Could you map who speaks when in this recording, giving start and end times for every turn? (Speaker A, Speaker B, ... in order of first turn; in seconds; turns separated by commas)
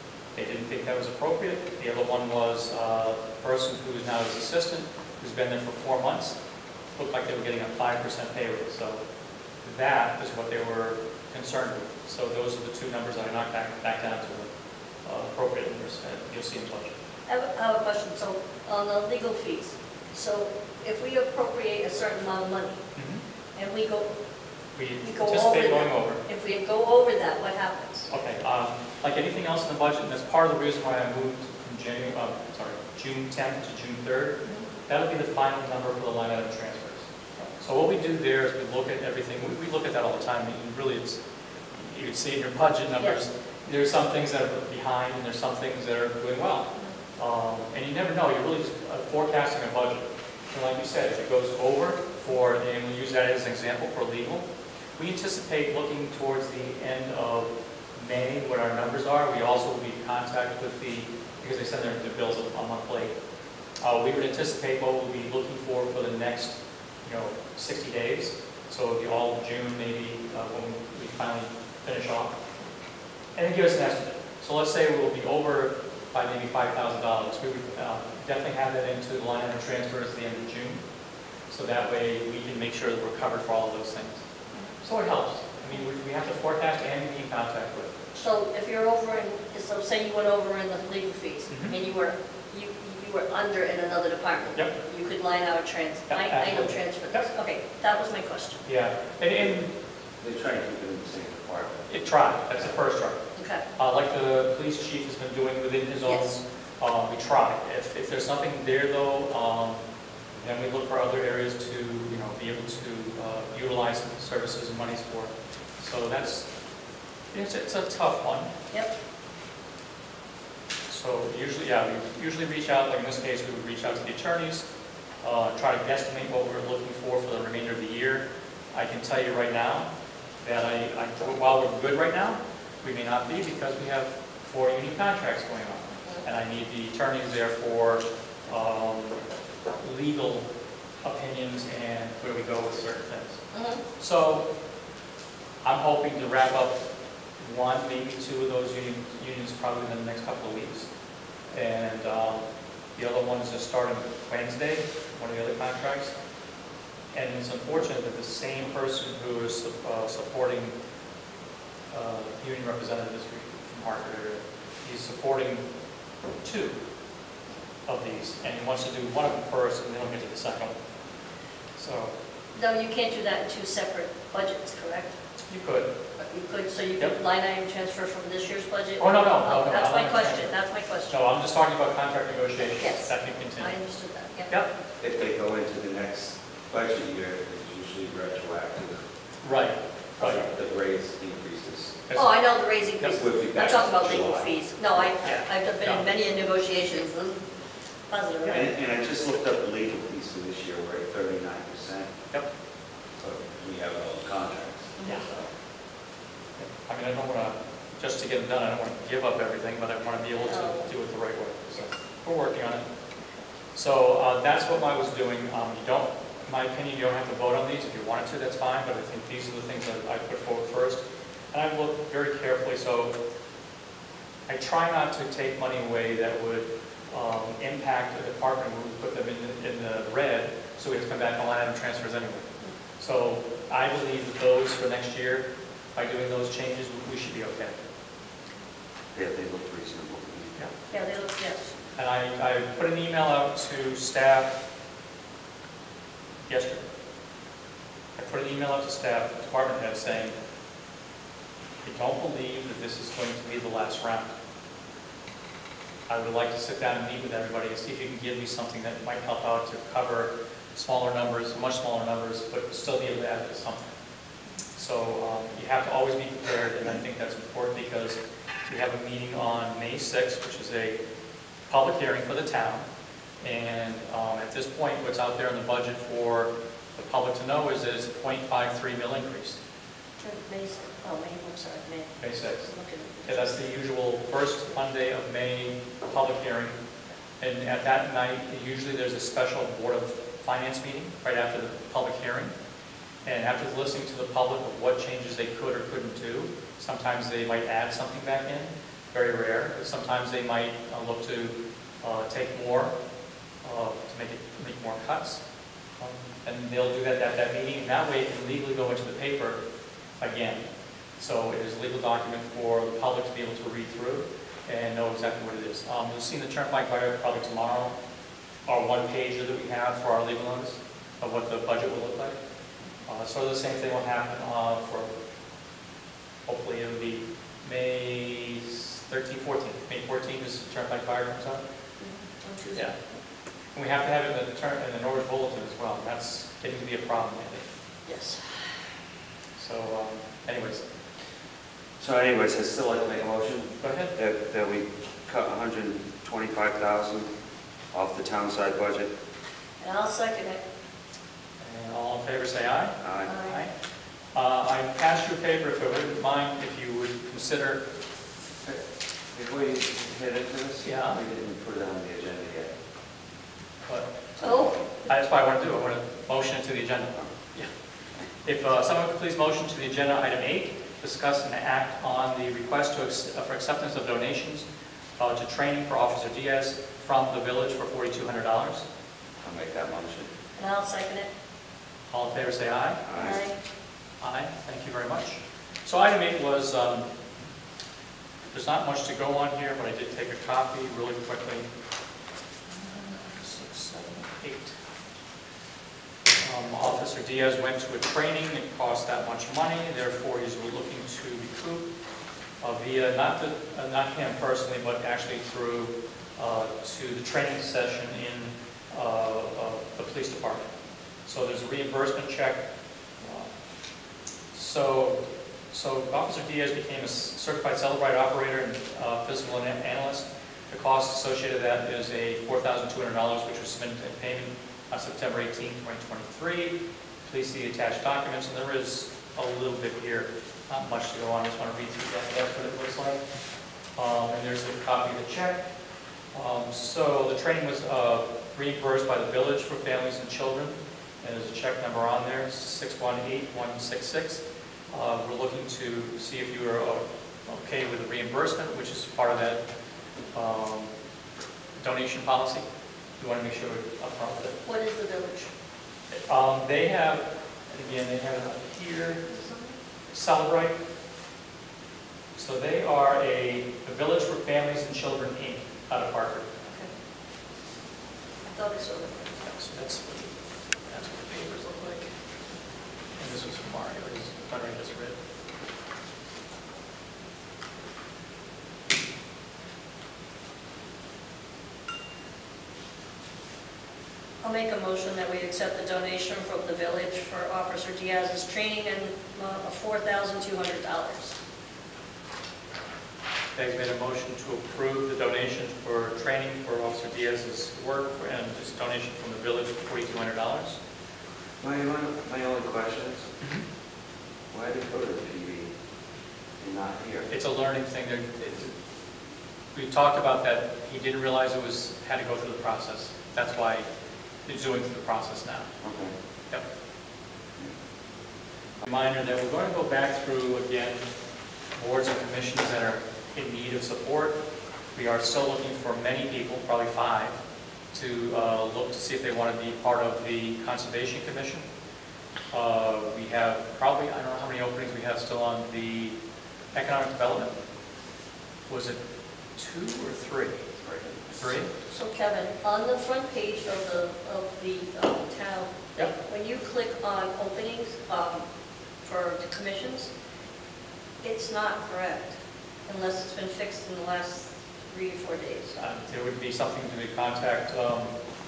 Speaker A: 0.3-6.4, Speaker A: 7.0-9.0, Speaker A: 9.6-14.5, Speaker A: 15.0-16.9, Speaker B: 17.3-22.8, Speaker A: 22.9-23.2, Speaker B: 23.6-24.1, Speaker A: 24.8-26.2, Speaker B: 25.0-28.1, Speaker A: 28.1-37.1, Speaker A: 37.6-41.2, Speaker A: 41.8-54.5, Speaker A: 55.0-63.1, Speaker A: 63.8-72.4, Speaker A: 73.4-80.8, Speaker A: 81.5-84.2, Speaker A: 84.8-88.0, Speaker B: 88.2-98.6, Speaker A: 91.5-91.8, Speaker A: 96.1-97.3, Speaker A: 98.7-99.7, Speaker C: 100.2-101.9, Speaker A: 101.9-103.2, Speaker B: 103.4-103.6, Speaker A: 103.8-109.8, Speaker A: 110.4-116.5, Speaker A: 117.3-118.5, Speaker A: 120.9-124.7, Speaker A: 125.2-129.9, Speaker A: 130.4-139.2, Speaker A: 139.8-140.5, Speaker A: 141.0-143.4, Speaker B: 143.5-143.8, Speaker A: 144.0-144.5, Speaker A: 145.6-146.8, Speaker A: 147.4-150.9, Speaker A: 151.5-156.1, Speaker A: 157.1-160.8, Speaker A: 161.9-165.6, Speaker A: 166.4-166.8, Speaker A: 167.9-170.8, Speaker A: 171.8-172.1, Speaker B: 172.6-175.1, Speaker A: 175.5-175.9, Speaker B: 176.2-181.2, Speaker A: 179.0-180.5, Speaker A: 181.1-183.7, Speaker B: 182.8-184.5, Speaker C: 185.0-189.1, Speaker A: 189.4-190.5, Speaker C: 190.2-192.0, Speaker A: 192.1-192.3, Speaker B: 192.1-197.4, Speaker C: 193.1-194.5, Speaker A: 195.2-196.1, Speaker B: 198.1-198.7, Speaker C: 198.5-202.1, Speaker C: 203.2-205.4, Speaker B: 205.0-205.3, Speaker A: 206.6-212.8, Speaker B: 210.4-210.9, Speaker A: 213.7-223.2, Speaker A: 224.5-232.4, Speaker A: 233.0-237.8, Speaker C: 239.1-240.6, Speaker B: 240.9-241.7, Speaker A: 242.0-244.6, Speaker A: 246.5-246.9, Speaker A: 248.2-250.3, Speaker A: 251.8-254.3, Speaker A: 256.1-263.8, Speaker A: 264.8-271.0, Speaker A: 271.7-272.9, Speaker A: 273.4-279.6, Speaker B: 280.2-283.5, Speaker A: 282.2-282.6, Speaker A: 283.2-286.8, Speaker A: 287.4-292.5, Speaker A: 293.2-302.9, Speaker A: 303.6-305.4, Speaker A: 306.0-309.6, Speaker A: 310.2-310.6, Speaker A: 311.2-317.9, Speaker A: 318.6-322.4, Speaker A: 323.1-325.1, Speaker A: 326.5-331.6, Speaker B: 332.0-333.0, Speaker A: 333.7-337.7, Speaker B: 338.1-338.8, Speaker A: 339.6-340.8, Speaker C: 342.0-347.3, Speaker A: 343.8-344.1, Speaker C: 347.9-349.1, Speaker B: 349.8-350.6, Speaker A: 351.6-353.7, Speaker C: 353.0-353.3, Speaker B: 353.3-353.6, Speaker A: 354.3-357.9, Speaker C: 358.6-362.8, Speaker A: 360.8-361.2, Speaker A: 363.9-367.7, Speaker C: 364.4-364.7, Speaker B: 364.4-364.8, Speaker A: 368.4-374.6, Speaker A: 375.2-378.9, Speaker C: 379.4-380.3, Speaker B: 380.6-381.3, Speaker A: 382.1-383.0, Speaker C: 383.0-383.4, Speaker B: 383.1-383.6, Speaker A: 384.2-387.1, Speaker A: 388.5-391.7, Speaker A: 392.7-394.8, Speaker A: 396.4-401.9, Speaker A: 402.6-410.7, Speaker A: 411.2-412.6, Speaker A: 413.2-413.5, Speaker A: 414.5-433.2, Speaker A: 434.0-435.6, Speaker A: 436.3-449.6, Speaker A: 450.3-450.9, Speaker A: 451.8-452.6, Speaker A: 453.2-454.6, Speaker B: 454.6-455.5, Speaker A: 456.3-459.2, Speaker B: 459.3-459.8, Speaker A: 460.1-460.8, Speaker A: 462.4-466.5, Speaker B: 466.7-466.9, Speaker B: 468.5-469.4, Speaker A: 469.4-472.1, Speaker A: 473.2-475.2, Speaker B: 484.4-491.4, Speaker A: 493.6-500.8, Speaker C: 501.6-503.3, Speaker C: 504.5-505.7, Speaker C: 506.6-507.3, Speaker A: 507.3-508.7, Speaker A: 509.7-513.9, Speaker A: 514.4-515.7, Speaker C: 515.8-516.1, Speaker A: 518.8-521.0, Speaker A: 521.8-524.4, Speaker A: 524.9-527.4, Speaker A: 527.9-531.6, Speaker A: 532.5-536.1, Speaker A: 536.7-537.5, Speaker A: 538.7-539.0, Speaker A: 539.5-540.6, Speaker C: 540.8-541.3, Speaker A: 541.4-541.7, Speaker B: 541.9-548.4, Speaker B: 549.0-550.1, Speaker B: 551.2-552.4, Speaker B: 552.9-555.8, Speaker A: 555.8-558.2